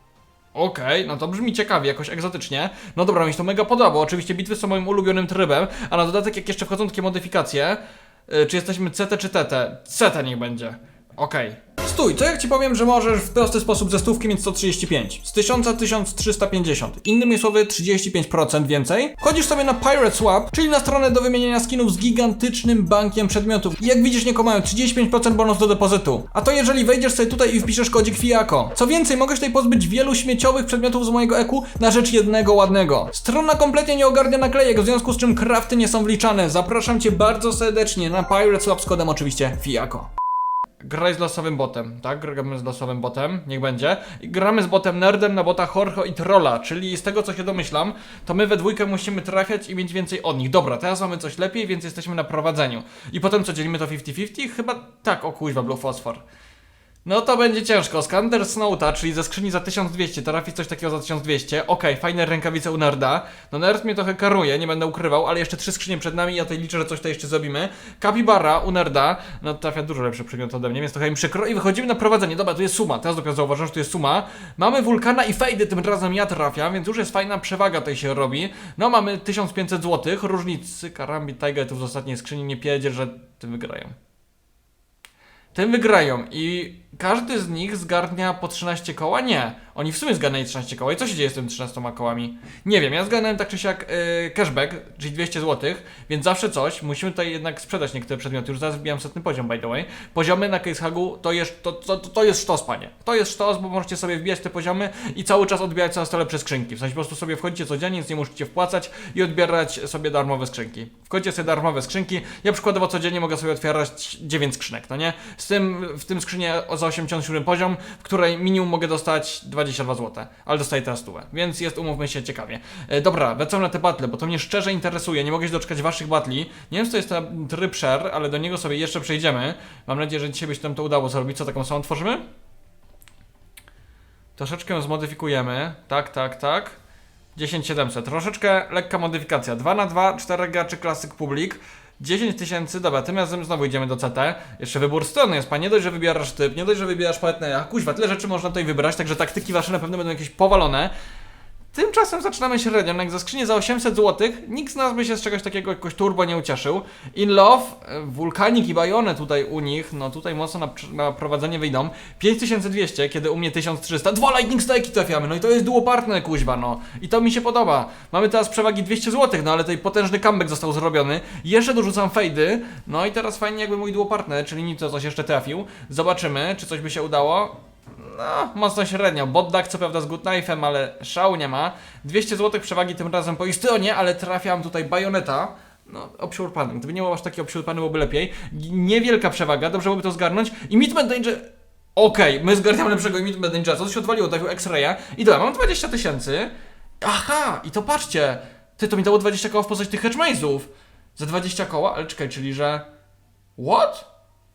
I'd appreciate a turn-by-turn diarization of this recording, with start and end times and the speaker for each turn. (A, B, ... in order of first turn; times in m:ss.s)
0:00.5-0:40.1 A
0:40.8-0:56.2 A
0:57.0-1:24.0 A
1:25.5-2:12.2 A
2:14.4-2:16.8 A
2:17.4-2:30.9 A
2:31.7-3:16.5 A
3:17.0-3:22.9 A
3:23.6-3:24.1 A